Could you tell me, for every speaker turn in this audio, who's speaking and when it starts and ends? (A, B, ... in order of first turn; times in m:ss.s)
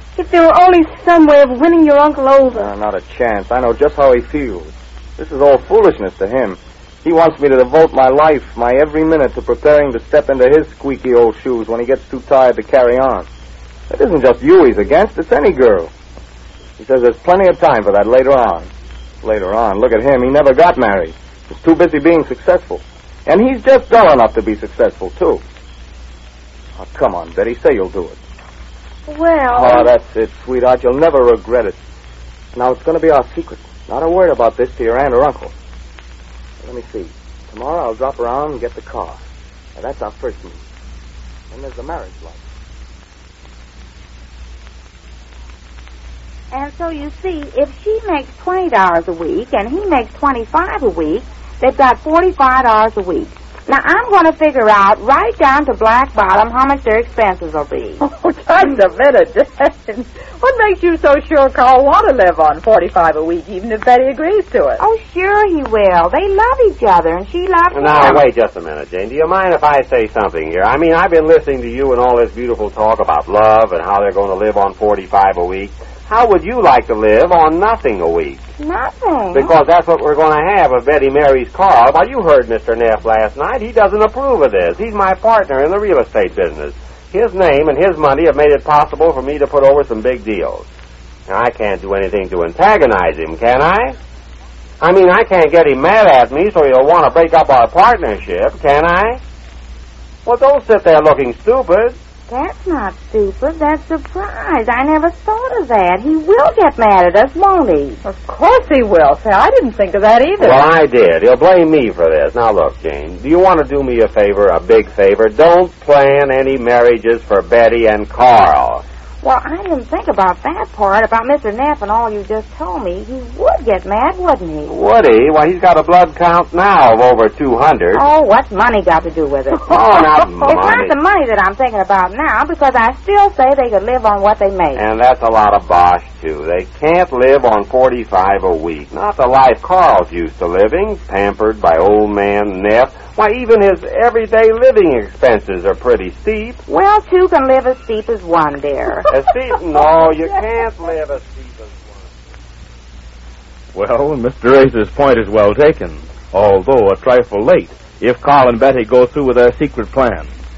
0:00.2-0:02.7 A
0:02.5-0:13.3 B
0:13.9-0:15.9 B
0:16.8-0:18.7 B
0:19.2-0:25.4 B
0:26.8-0:28.2 B
0:29.1-0:29.9 A
0:29.5-0:31.8 B
0:32.6-0:35.5 B
0:36.6-0:39.2 B
0:39.8-0:40.6 B
0:41.5-0:42.4 B
0:46.5-0:58.0 C
0:58.0-1:04.8 D
1:04.8-1:08.2 C
1:07.7-1:18.4 E
1:18.6-1:19.5 C
1:19.3-1:30.7 E
1:31.3-1:34.0 E
1:34.8-1:39.2 E
1:40.3-1:42.0 E
1:42.3-1:48.0 C
1:48.0-1:50.6 D
1:50.4-1:58.8 E
1:59.2-2:04.7 C
2:04.7-2:08.0 E
2:07.9-2:09.8 C
2:09.7-2:10.9 E
2:10.4-2:14.8 C
2:14.7-2:26.6 E
2:26.7-2:29.1 C
2:29.1-2:32.1 E
2:33.7-2:40.3 F